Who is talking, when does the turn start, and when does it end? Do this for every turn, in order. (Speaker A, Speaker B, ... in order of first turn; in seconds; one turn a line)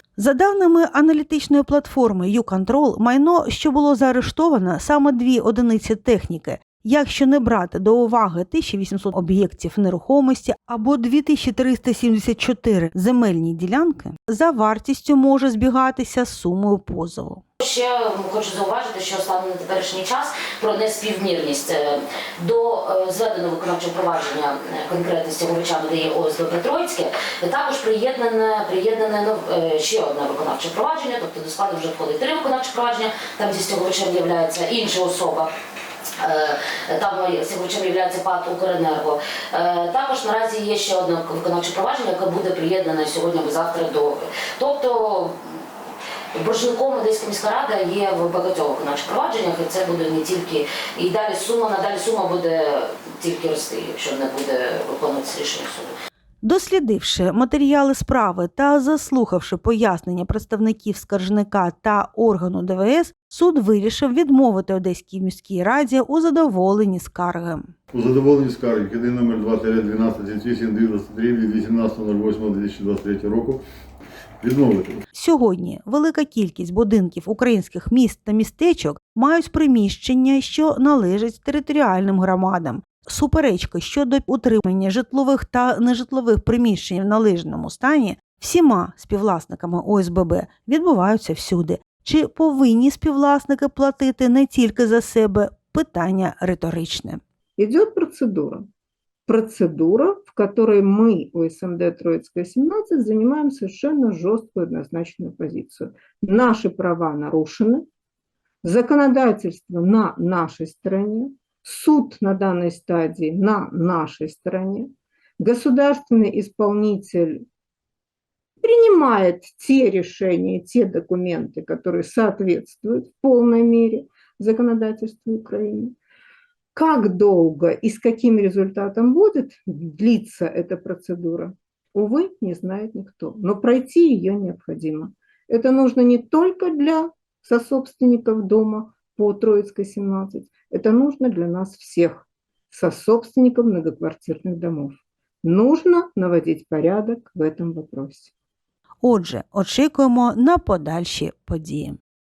Speaker A: 0.2-17.4
Speaker B: 17.6-35.5
Speaker B: 36.2-45.6
Speaker B: 46.4-55.9
Speaker A: 56.4-67.7
Speaker C: 67.9-73.6
Speaker C: 74.4-75.0
Speaker A: 75.1-97.2
Speaker D: 97.6-98.7
Speaker D: 99.3-107.9
Speaker D: 108.6-117.4
Speaker D: 118.6-126.0
Speaker D: 126.8-148.3
Speaker A: 149.0-152.0